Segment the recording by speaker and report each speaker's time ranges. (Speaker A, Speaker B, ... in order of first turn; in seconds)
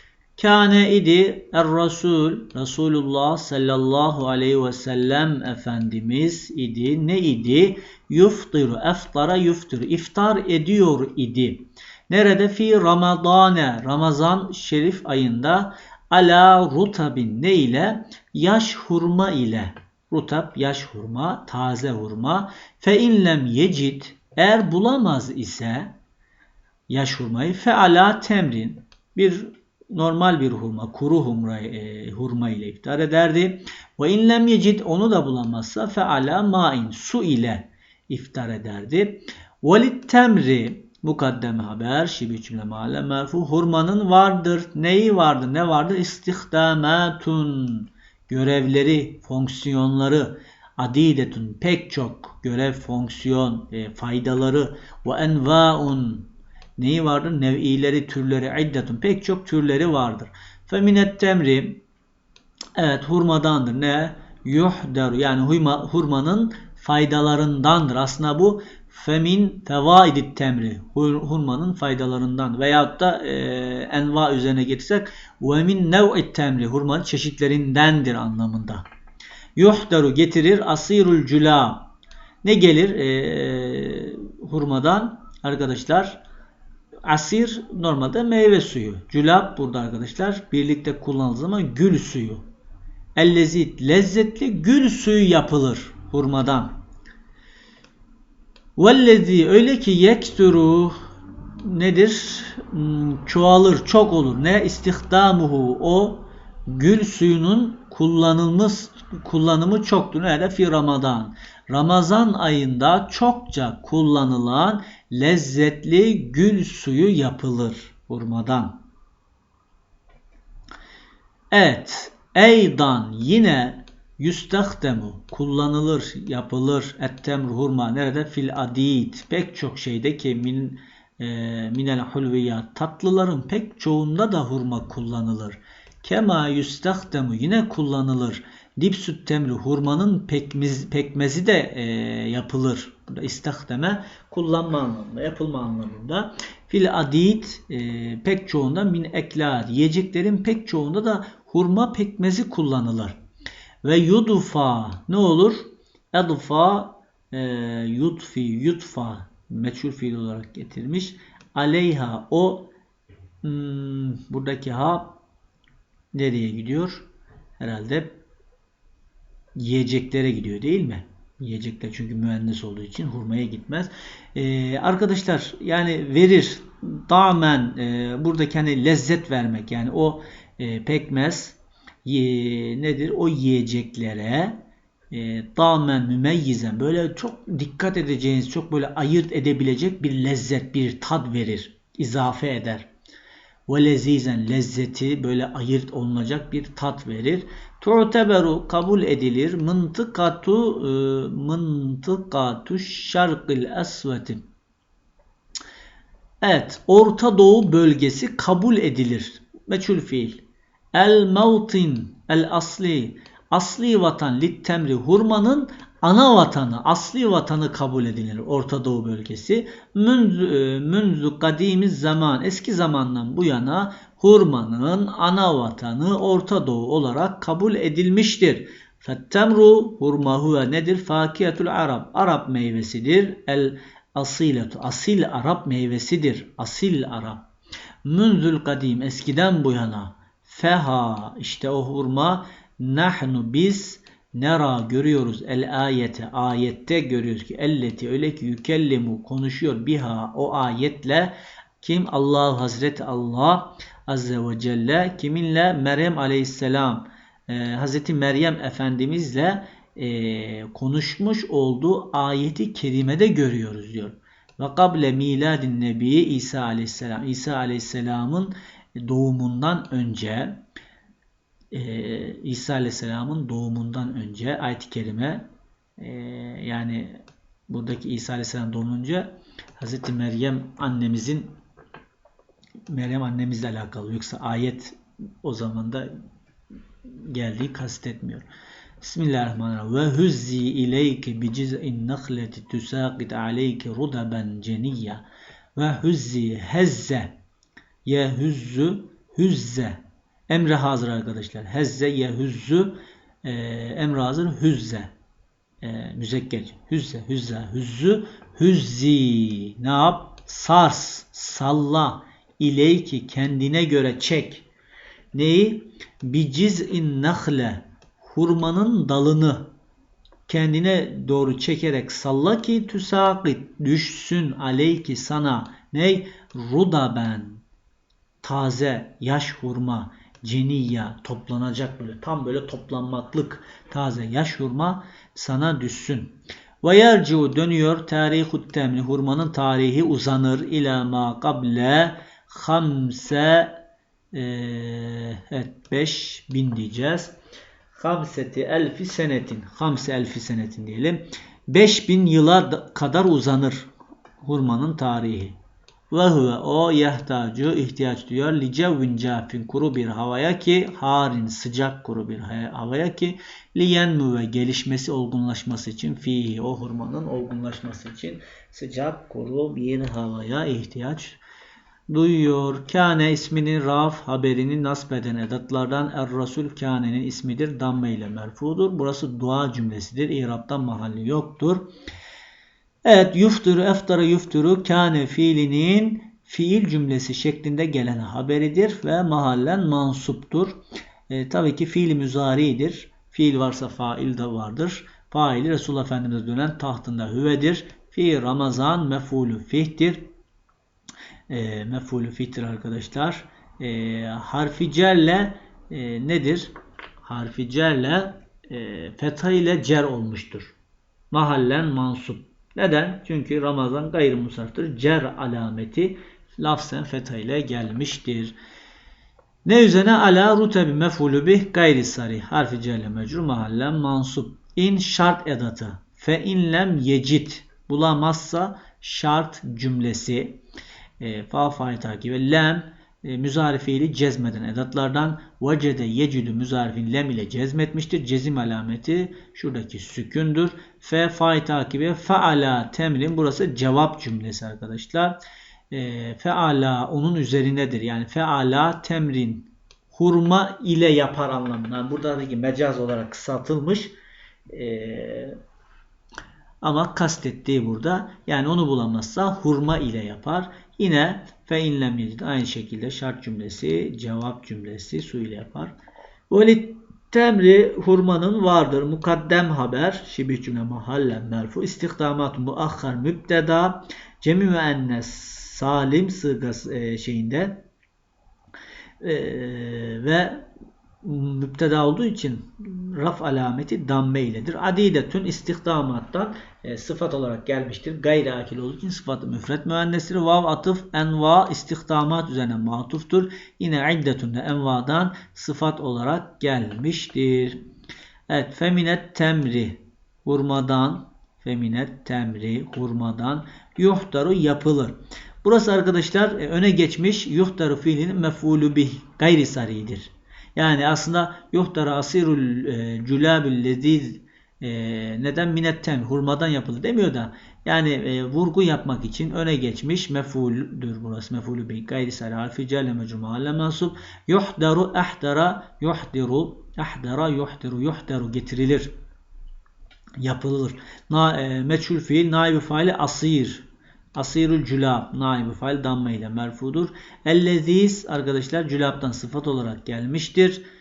Speaker A: 0.4-25.9, 26.9-61.8, 62.8-78.8, 79.5-81.9, 82.4-86.2, 87.0-92.4, 93.2-96.7, 98.8-101.0, 101.6-118.8, 121.5-153.2, 153.8-162.7, 163.4-165.2, 166.1-167.1, 167.6-168.2, 169.6-184.6, 185.1-192.9, 193.7-204.4, 206.4-210.4, 210.9-237.5, 238.0-270.6, 271.7-275.4, 276.0-281.5, 282.9-286.1, 287.1-288.4, 289.0-295.2, 295.8-297.4, 298.0-305.1, 305.8-314.6, 315.3-319.7, 320.5-327.6, 328.4-343.7, 344.3-347.3, 347.9-353.9, 354.4-355.6, 356.1-371.4, 372.1-381.9, 383.0-390.8, 391.3-400.3, 401.5-410.8, 411.3-418.6, 419.6-430.6, 431.2-445.4, 445.9-454.1, 454.7-455.6, 456.8-465.9, 466.5-477.8, 479.2-480.6, 481.2-497.8, 498.5-529.1, 530.4-540.8